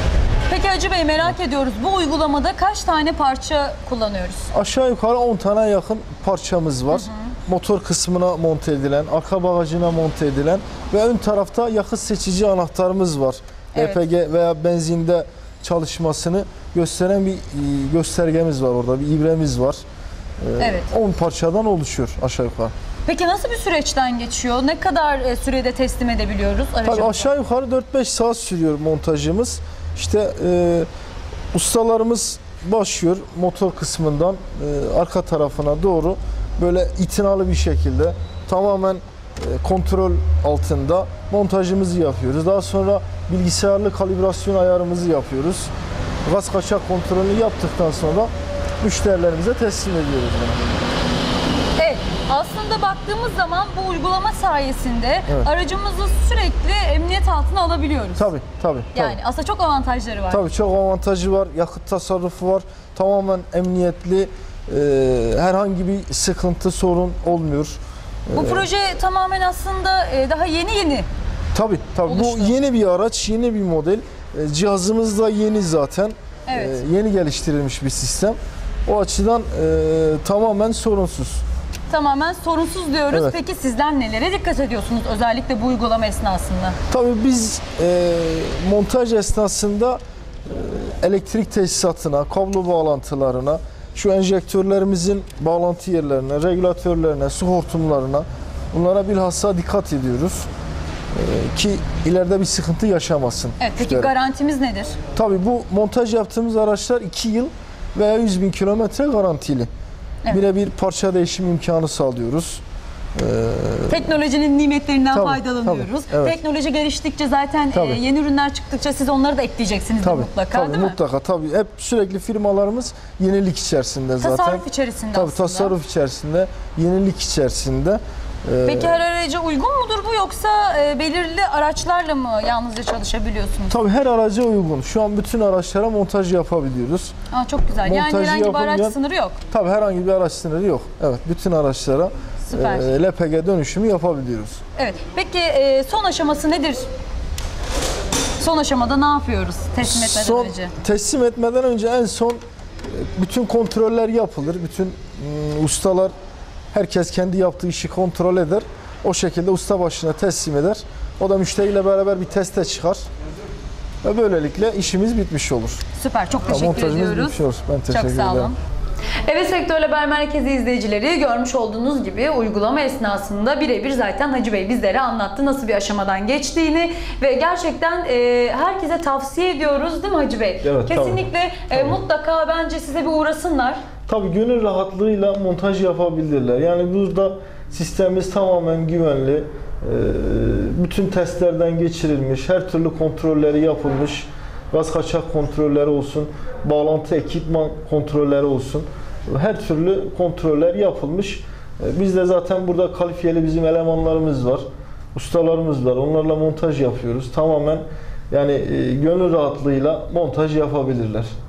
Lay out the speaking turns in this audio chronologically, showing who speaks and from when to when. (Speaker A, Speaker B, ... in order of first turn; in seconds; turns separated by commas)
Speaker A: 0.5-4.5, Speaker B: 4.5-19.8, Speaker A: 6.9-7.3, Speaker A: 13.7-14.0, Speaker B: 20.4-22.7, Speaker A: 20.6-20.9, Speaker A: 23.1-27.3, Speaker B: 26.8-30.9, Speaker B: 31.5-45.7, Speaker B: 46.2-48.3, Speaker B: 48.8-50.8, Speaker A: 51.8-58.3, Speaker B: 58.2-59.2, Speaker A: 58.9-60.5, Speaker B: 60.3-68.7, Speaker A: 68.3-71.1, Speaker B: 71.5-81.4, Speaker A: 72.1-72.5, Speaker A: 76.5-76.8, Speaker A: 81.9-86.8, Speaker B: 83.1-83.4, Speaker B: 86.9-100.5, Speaker B: 101.1-104.1, Speaker A: 103.6-105.0, Speaker B: 105.2-109.7, Speaker B: 110.3-112.6, Speaker B: 113.2-114.1, Speaker A: 113.9-121.0, Speaker B: 115.1-116.4, Speaker B: 117.7-118.0, Speaker B: 120.0-129.0, Speaker A: 124.2-125.7, Speaker A: 128.7-133.8, Speaker B: 133.7-137.1, Speaker A: 137.3-139.4, Speaker B: 137.8-139.0, Speaker B: 139.5-144.6, Speaker A: 142.5-142.9, Speaker A: 144.8-146.9, Speaker A: 148.4-150.7, Speaker B: 149.8-156.1, Speaker B: 156.7-163.0, Speaker B: 164.0-165.8, Speaker A: 166.0-168.6, Speaker B: 166.5-168.5, Speaker A: 169.2-183.8, Speaker B: 180.6-182.0, Speaker B: 184.1-211.3